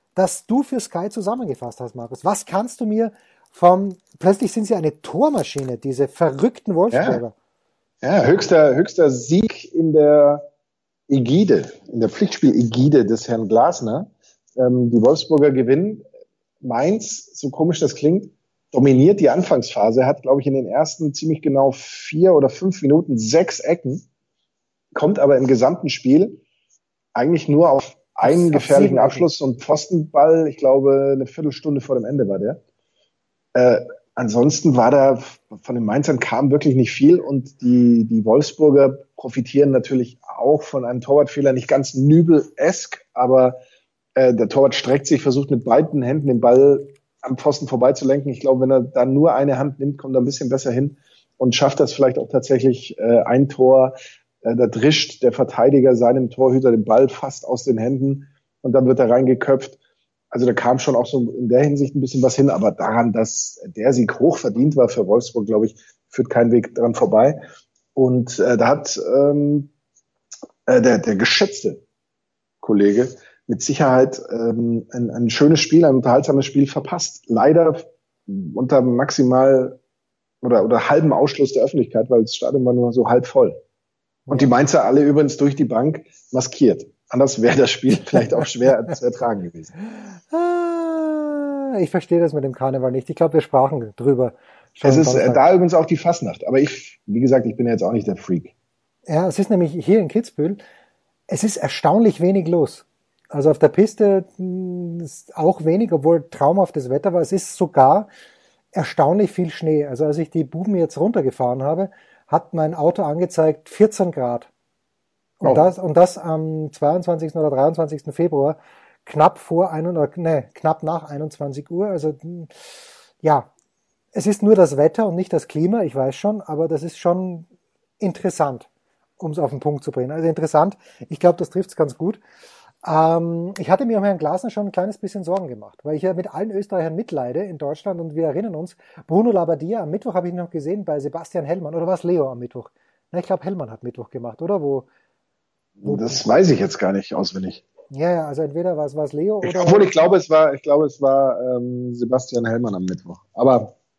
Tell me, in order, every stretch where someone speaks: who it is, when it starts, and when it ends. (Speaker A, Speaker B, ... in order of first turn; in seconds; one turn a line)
Speaker A: 0.2-7.3
Speaker B: 6.9-7.2
Speaker B: 8.0-10.5
Speaker B: 11.1-16.0
Speaker B: 16.6-24.1
Speaker B: 24.9-26.4
Speaker B: 27.1-32.6
Speaker A: 28.2-29.3
Speaker B: 33.5-43.6
Speaker B: 44.2-59.8
Speaker B: 60.3-67.4
Speaker B: 68.0-69.7
Speaker B: 70.7-71.8
Speaker B: 72.6-79.8
Speaker B: 80.4-83.6
Speaker A: 84.3-84.5
Speaker B: 84.3-89.7
Speaker A: 90.3-95.4
Speaker B: 94.8-98.5
Speaker A: 99.1-100.6
Speaker A: 101.3-108.1
Speaker A: 108.7-114.5
Speaker A: 115.4-122.5
Speaker B: 115.4-115.7
Speaker A: 123.2-123.5
Speaker A: 124.1-127.5
Speaker A: 128.0-128.7
Speaker A: 129.2-132.2
Speaker A: 132.8-144.9
Speaker B: 145.8-147.6
Speaker A: 145.8-146.2
Speaker A: 147.9-150.1
Speaker B: 149.4-153.7